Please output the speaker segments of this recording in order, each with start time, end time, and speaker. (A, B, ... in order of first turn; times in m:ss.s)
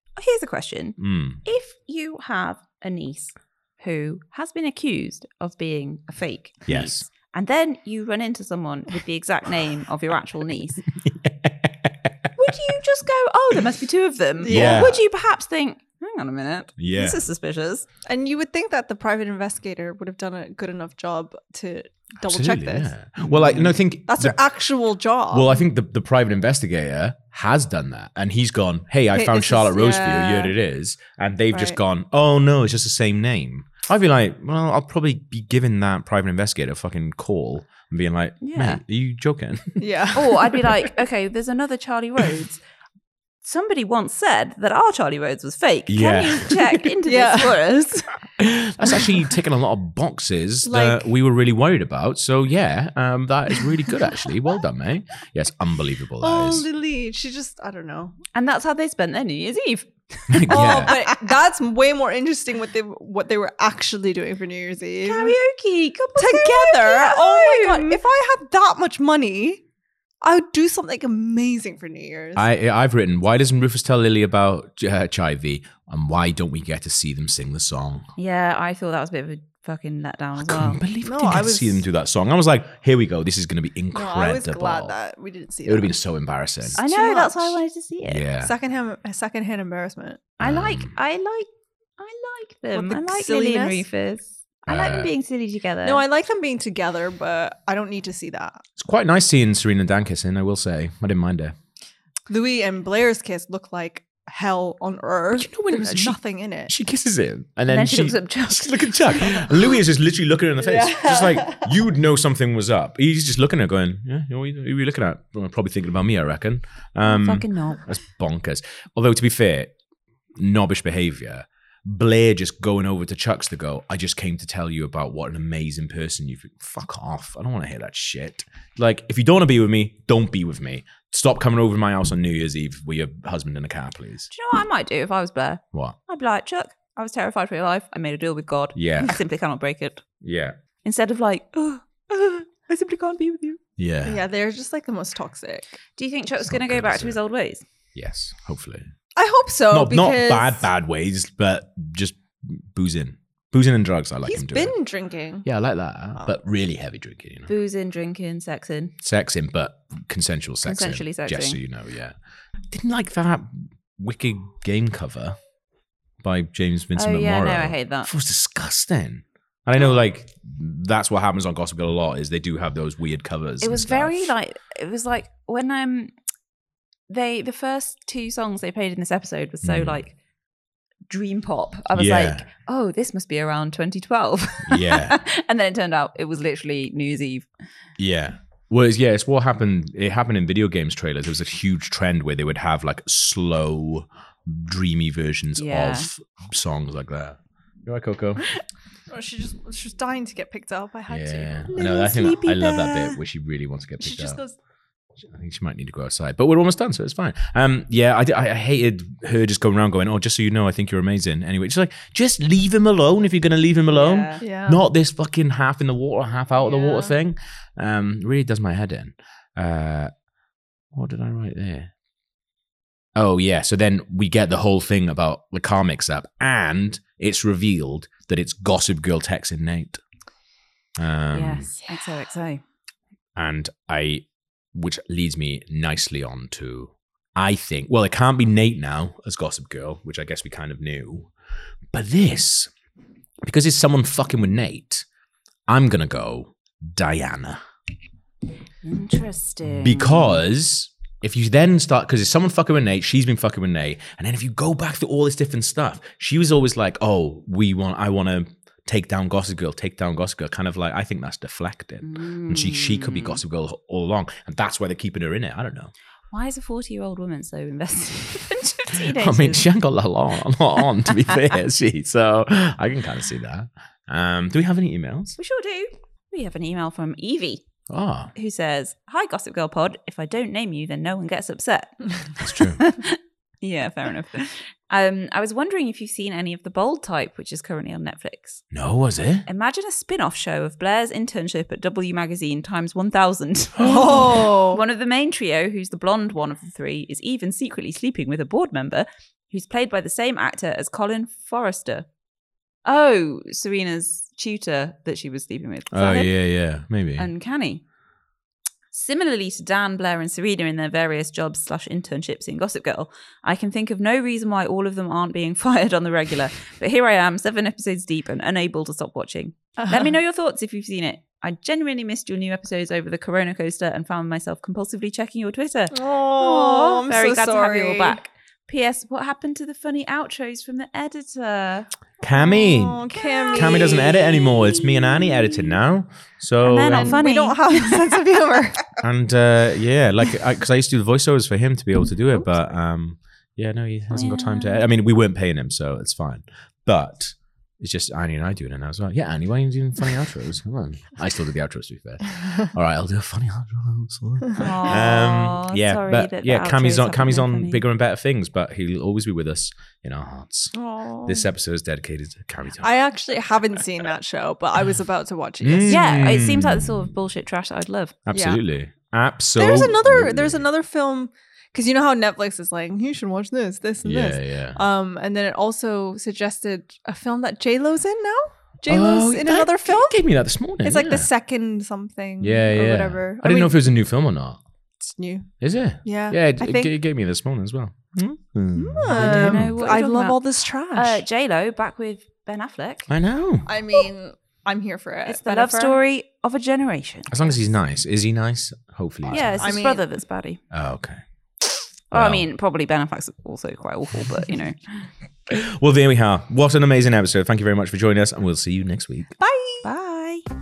0:00.2-0:10.8 A
0:01.0-0:01.4 B
0:06.6-0:07.1 B
0:11.0-0:12.3 B
0:12.4-0:17.8 A
0:14.4-0:15.0 C
0:14.5-0:15.0 B
0:16.8-0:17.2 B
0:18.0-0:25.6 C
0:22.2-0:24.4 B
0:25.3-0:39.8 B
0:29.1-0:30.5 C
0:38.4-0:38.8 A
0:39.8-0:40.4 C
0:40.1-0:42.6 A
0:43.4-0:48.1 A
0:45.9-0:46.9 B
0:47.0-0:47.6 C
0:48.4-0:56.6 B
0:50.6-0:51.1 C
0:56.2-0:58.2 C
0:58.3-1:01.2 A
1:00.3-1:00.9 B
1:00.5-1:05.4 C
1:05.0-1:08.0 A
1:06.2-1:09.6 C
1:10.2-1:12.4 C
1:12.4-1:18.1 B
1:18.2-1:20.8 A
1:20.4-1:25.0 B
1:21.0-1:21.8 C
1:23.9-1:25.9 C
1:25.6-1:26.8 B
1:26.7-1:27.6 C
1:26.8-1:28.2 A
1:28.0-1:28.5 B
1:28.4-1:30.3 C
1:30.4-1:30.9 B
1:30.4-1:36.0 A
1:32.7-1:33.8 C
1:34.7-1:35.1 B
1:35.8-1:38.6 C
1:38.8-1:41.6 B
1:42.3-1:46.7 C
1:45.4-1:59.7 B
1:47.7-1:49.5 A
1:50.6-1:51.7 C
1:57.0-1:57.8 A
2:00.4-2:14.3 B
2:14.3-2:20.0 A
2:18.7-2:19.2 B
2:20.2-2:20.6 B
2:20.8-2:23.6 A
2:23.8-2:24.2 B
2:24.0-2:25.8 C
2:26.0-2:27.6 A
2:26.4-2:27.2 B
2:27.9-2:28.9 B
2:29.1-2:30.7 C
2:29.7-2:34.7 B
2:34.2-2:35.4 C
2:35.4-2:37.5 B
2:37.5-2:38.9 A
2:39.0-2:42.1 B
2:40.6-2:41.6 A
2:42.7-2:45.4 B
2:46.2-2:54.3 B
2:47.0-2:48.1 A
2:53.6-2:56.1 A
2:57.1-3:00.1 A
2:59.6-3:00.0 B
3:01.1-3:07.5 A
3:01.9-3:02.4 B
3:04.6-3:05.2 B
3:08.0-3:18.4 B
3:15.6-3:16.1 A
3:19.1-3:23.1 C
3:21.1-3:24.4 B
3:21.7-3:23.0 A
3:24.0-3:24.5 C
3:25.2-3:40.1 B
3:33.9-3:34.4 A
3:34.4-3:34.8 C
3:36.6-3:37.1 C
3:40.9-3:41.9 B
3:43.1-3:50.0 B
3:51.0-3:51.7 B
3:51.3-3:52.6 A
3:53.4-4:01.3 B
4:01.9-4:02.7 B
4:03.4-4:05.0 B
4:05.7-4:07.6 B
4:08.8-4:10.4 A
4:09.6-4:25.9 B
4:22.0-4:23.4 A
4:26.3-4:29.7 A
4:28.9-4:35.4 B
4:35.4-4:37.6 A
4:37.9-4:38.3 B
4:38.3-4:48.6 A
4:42.4-4:42.8 B
4:48.7-4:49.4 B
4:49.4-5:02.1 A
4:53.8-4:54.3 B
4:53.8-4:54.8 C
5:02.8-5:06.3 A
5:05.9-5:07.3 B
5:07.2-5:07.8 A
5:08.9-5:31.9 A
5:19.8-5:20.1 C
5:25.9-5:28.2 C
5:32.2-5:37.2 B
5:32.3-5:34.2 C
5:33.1-5:35.7 A
5:36.6-5:38.2 A
5:36.9-5:38.8 C
5:39.0-6:00.7 B
5:44.1-5:44.8 A
5:54.6-5:57.8 A
6:00.7-6:01.4 C
6:01.2-6:02.9 B
6:02.8-6:06.2 C
6:05.6-6:07.1 B
6:05.9-6:08.2 A
6:08.3-6:10.6 B
6:08.3-6:08.6 C
6:09.6-6:20.2 C
6:14.0-6:14.8 B
6:18.8-6:21.3 B
6:20.8-6:23.9 C
6:22.4-6:24.6 B
6:25.0-6:25.5 C
6:25.6-6:29.7 B
6:26.0-6:26.9 C
6:28.8-6:31.2 C
6:29.1-6:30.4 A
6:30.9-6:33.1 A
6:33.1-6:33.7 B
6:33.7-6:36.0 C
6:35.2-6:37.3 A
6:37.3-6:39.8 B
6:39.3-6:40.6 A
6:39.3-6:40.0 C
6:40.7-6:42.4 B
6:42.1-6:44.8 A
6:45.5-6:49.3 B
6:49.4-6:49.8 C
6:49.8-6:50.4 A